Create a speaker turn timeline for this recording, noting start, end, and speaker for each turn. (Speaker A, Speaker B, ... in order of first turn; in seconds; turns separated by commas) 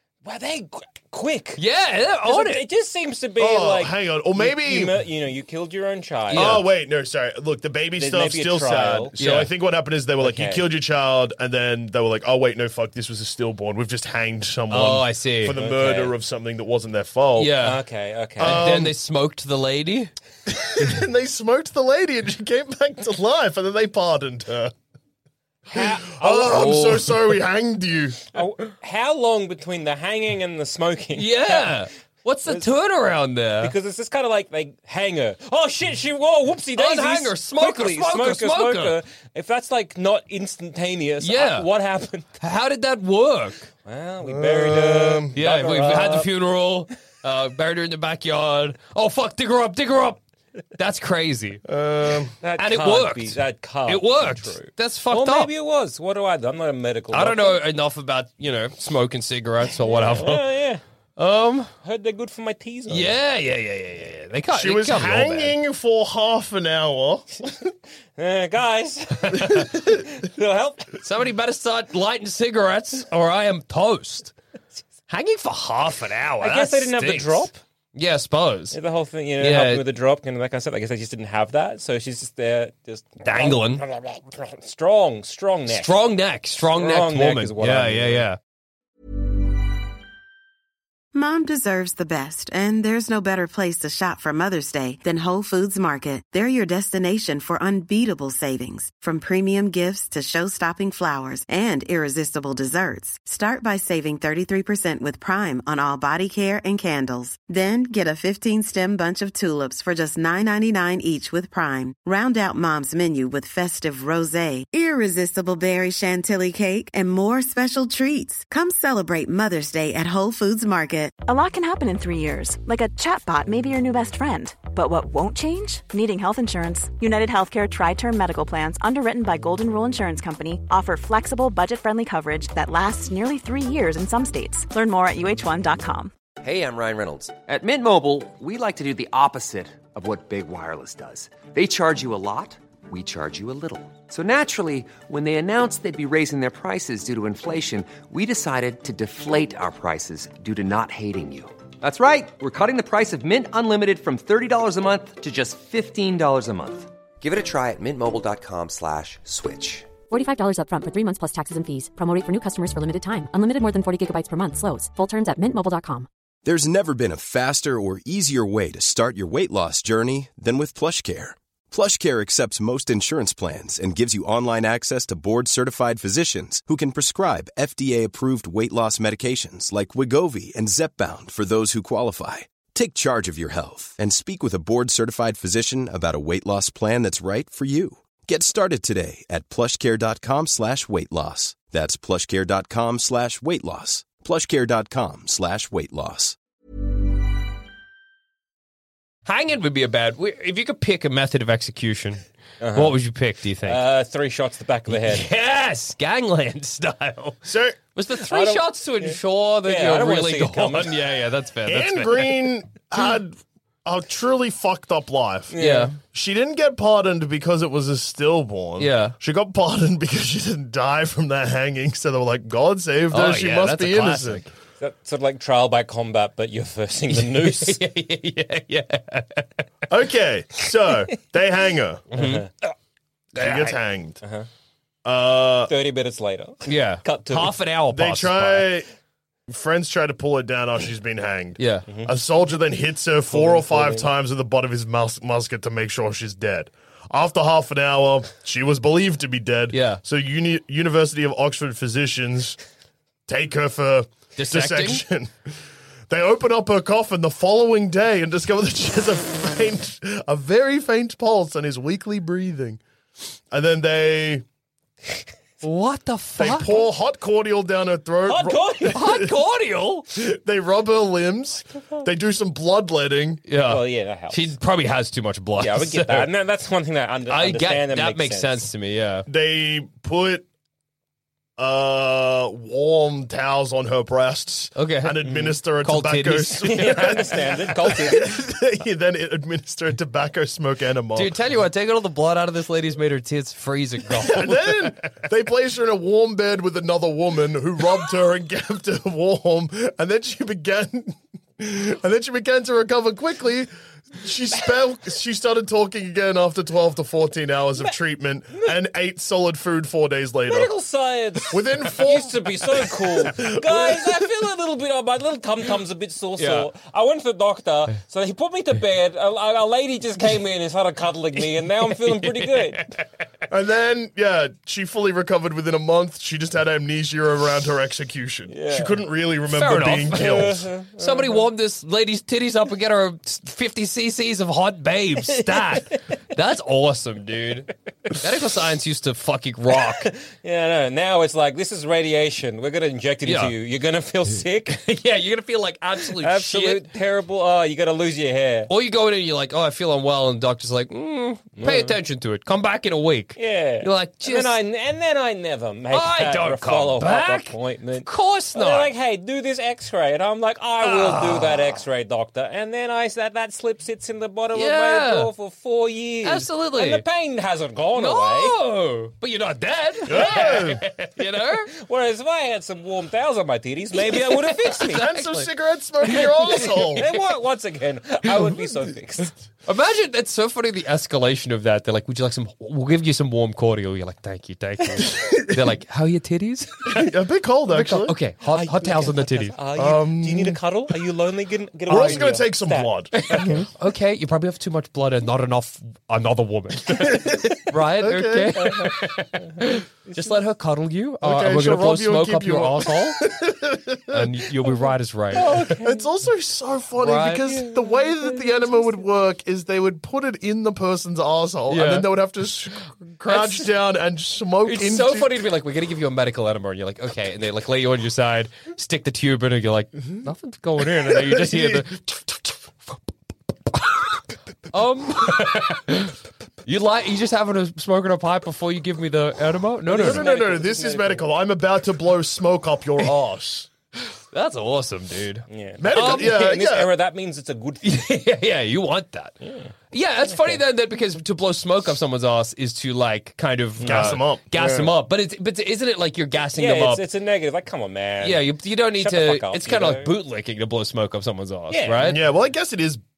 Speaker A: 0.2-1.6, Speaker B: 1.6-2.6, Speaker A: 2.2-6.6, Speaker C: 3.4-5.0, Speaker B: 6.3-6.7, Speaker C: 6.3-17.6, Speaker A: 8.0-9.1, Speaker B: 9.2-9.5, Speaker A: 10.2-10.6, Speaker B: 14.7-15.6, Speaker A: 15.5-16.1, Speaker B: 17.4-17.8, Speaker A: 17.6-18.7, Speaker C: 18.4-19.0, Speaker B: 18.4-20.1, Speaker C: 20.5-24.7, Speaker A: 25.7-26.8, Speaker C: 25.7-28.2, Speaker B: 26.4-27.1, Speaker A: 28.3-31.9, Speaker B: 31.1-33.7, Speaker A: 33.6-42.4, Speaker B: 36.8-39.0, Speaker B: 41.2-41.7, Speaker B: 42.4-43.7, Speaker A: 43.8-46.3, Speaker C: 44.2-45.4, Speaker B: 45.3-50.2, Speaker B: 50.7-51.6, Speaker C: 51.7-52.3, Speaker A: 52.4-57.6, Speaker B: 52.6-55.5, Speaker B: 57.1-60.5, Speaker A: 59.8-60.8, Speaker B: 61.2-61.7, Speaker A: 61.8-63.1, Speaker B: 62.9-65.5, Speaker C: 64.5-67.5, Speaker A: 68.2-71.0, Speaker B: 71.0-74.3, Speaker B: 75.1-78.8, Speaker A: 76.4-77.6, Speaker A: 78.7-85.9, Speaker B: 79.4-79.8, Speaker B: 83.2-83.8, Speaker B: 85.7-88.4, Speaker A: 86.7-88.2, Speaker D: 91.1-121.1, Speaker E: 121.3-136.1, Speaker F: 136.4-159.9, Speaker G: 160.1-166.1, Speaker H: 166.4-196.3, Speaker B: 199.2-202.2, Speaker A: 202.6-203.0, Speaker B: 202.7-203.8, Speaker A: 203.6-205.3, Speaker B: 204.9-212.3, Speaker C: 207.4-207.8, Speaker A: 208.1-211.1, Speaker C: 211.7-224.4, Speaker A: 215.5-215.9, Speaker B: 215.6-215.9, Speaker B: 218.8-219.1, Speaker B: 223.1-224.5, Speaker A: 224.8-227.8, Speaker B: 227.1-229.6, Speaker C: 229.9-232.1, Speaker B: 232.1-232.5, Speaker A: 232.1-232.5, Speaker C: 233.3-234.2, Speaker B: 233.4-233.7, Speaker A: 234.2-234.5, Speaker C: 235.0-235.7, Speaker A: 235.7-237.6, Speaker B: 236.7-238.7, Speaker C: 237.9-238.9, Speaker C: 239.5-252.6, Speaker B: 241.6-241.9, Speaker A: 243.3-244.1, Speaker B: 249.7-250.0, Speaker C: 253.3-255.3, Speaker B: 254.3-255.0, Speaker C: 256.1-262.8, Speaker C: 263.5-264.4, Speaker B: 265.6-266.8, Speaker C: 266.4-269.3, Speaker A: 268.2-269.1, Speaker B: 268.9-270.1, Speaker C: 270.1-273.4, Speaker B: 273.5-276.3, Speaker A: 273.6-274.5, Speaker A: 275.6-278.6, Speaker B: 277.3-279.3, Speaker C: 279.3-280.4, Speaker C: 281.6-291.4, Speaker B: 284.8-287.2, Speaker A: 286.6-288.4, Speaker B: 291.1-294.9, Speaker C: 294.1-310.7, Speaker A: 310.5-322.9, Speaker C: 311.5-314.3, Speaker B: 316.4-316.7, Speaker B: 322.2-323.0, Speaker C: 323.5-330.7, Speaker A: 328.5-329.0, Speaker B: 329.5-340.1, Speaker A: 330.1-331.4, Speaker A: 335.4-335.9, Speaker A: 339.7-344.8, Speaker B: 343.2-343.5, Speaker B: 344.8-346.8, Speaker A: 346.0-348.7, Speaker B: 348.7-354.6, Speaker A: 351.6-352.0, Speaker A: 353.4-368.6, Speaker B: 355.9-358.9, Speaker B: 360.8-361.8, Speaker B: 364.5-365.3, Speaker B: 366.2-367.0, Speaker B: 367.9-371.7, Speaker C: 370.1-370.8, Speaker A: 370.1-370.8, Speaker A: 371.7-375.1, Speaker B: 374.0-375.5, Speaker C: 374.9-377.1, Speaker B: 376.1-377.0, Speaker A: 376.6-379.4, Speaker B: 379.7-387.1, Speaker C: 385.1-385.7, Speaker C: 386.9-388.1, Speaker B: 387.7-389.6, Speaker A: 388.4-393.7, Speaker C: 389.7-390.6, Speaker C: 391.9-393.6, Speaker B: 391.9-392.3, Speaker B: 393.1-403.2, Speaker C: 396.9-398.9, Speaker A: 398.6-398.9, Speaker A: 400.1-400.3, Speaker C: 401.2-404.8, Speaker B: 404.1-405.8, Speaker A: 405.3-406.1, Speaker C: 405.5-415.4, Speaker B: 407.0-407.6, Speaker A: 407.5-408.7, Speaker B: 411.7-412.1, Speaker B: 413.2-413.7, Speaker B: 414.6-422.9, Speaker C: 420.8-421.9, Speaker B: 423.7-424.1, Speaker B: 424.7-430.2, Speaker A: 429.9-431.3, Speaker C: 429.9-433.7, Speaker B: 434.3-436.4, Speaker A: 435.5-438.0, Speaker C: 435.8-436.9, Speaker B: 437.8-439.4, Speaker A: 439.4-439.7, Speaker B: 439.9-447.0, Speaker A: 440.3-440.6, Speaker A: 443.8-444.9, Speaker C: 443.8-444.4, Speaker A: 446.5-450.1, Speaker B: 448.2-452.2, Speaker A: 451.7-452.2, Speaker C: 452.0-453.0